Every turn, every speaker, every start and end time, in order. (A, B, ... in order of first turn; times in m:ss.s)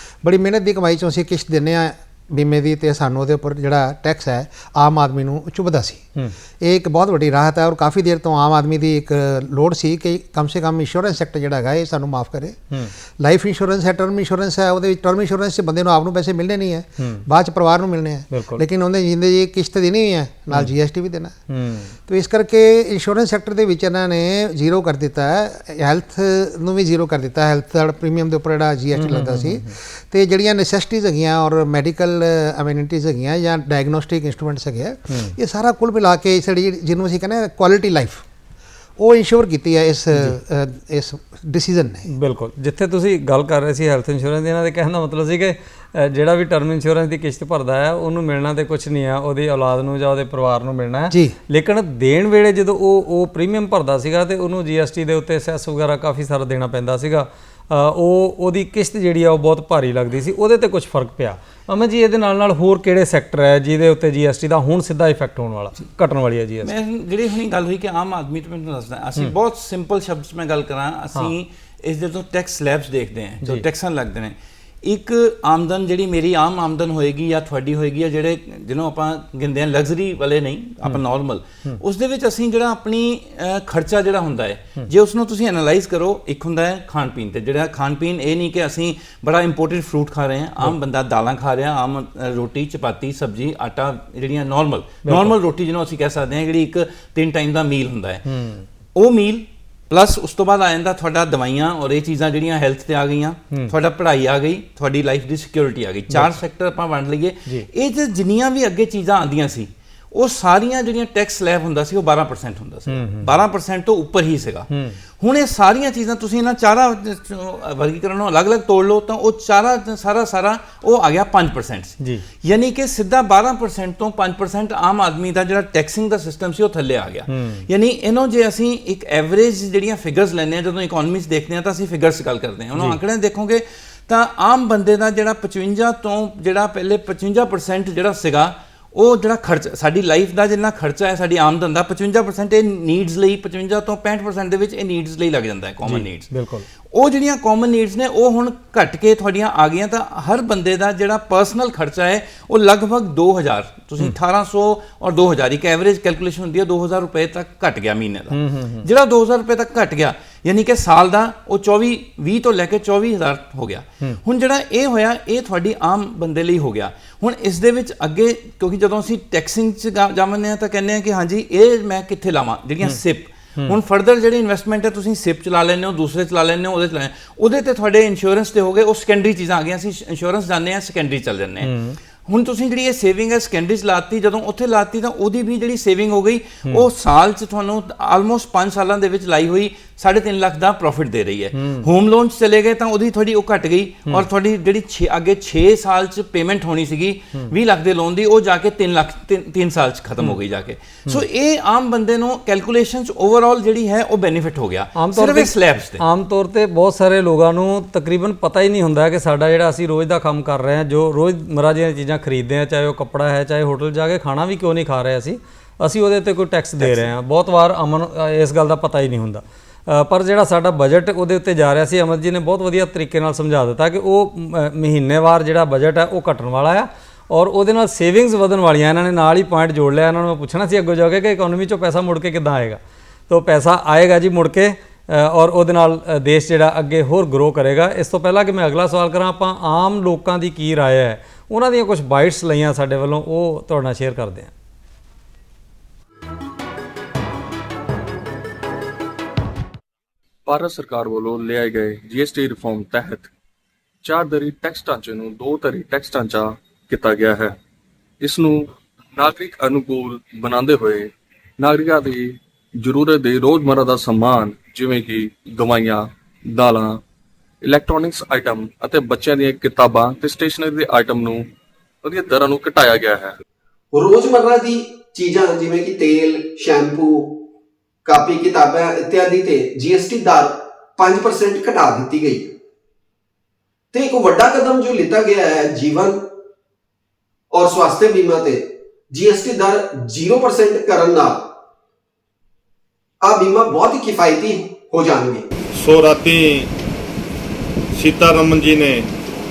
0:00.2-0:06.0 A
0:06.6-0:12.6 A
0:13.2-0:21.3 A
0:17.0-0:17.2 B
0:18.3-0:18.6 B
0:21.5-0:21.9 B
0:22.1-0:38.2 A
0:29.0-0:29.7 B
0:35.1-0:35.3 B
0:39.0-0:42.1 A
0:42.1-1:06.7 B
1:06.6-1:38.2 C
1:35.0-1:35.4 B
1:38.3-1:38.6 B
1:38.9-1:54.7 C
1:46.1-1:46.4 B
1:52.9-1:53.3 B
1:54.7-1:55.0 B
1:55.2-2:26.3 C
2:07.3-2:07.6 B
2:25.8-2:26.6 B
2:26.9-3:01.7 C
2:38.3-2:38.8 B
3:01.6-3:02.0 B
3:02.2-3:26.0 C
3:11.6-3:11.9 B
3:25.0-4:04.5 B
4:10.4-4:13.3 D
4:14.0-4:17.6 D
4:18.2-4:27.0 D
4:27.6-4:31.5 D
4:32.0-4:33.3 D
4:33.9-4:37.3 E
4:38.0-4:42.5 E
4:43.9-4:46.2 E
4:47.5-4:51.3 E
4:53.2-4:55.4 E
4:55.7-4:56.7 F
4:57.9-4:59.1 F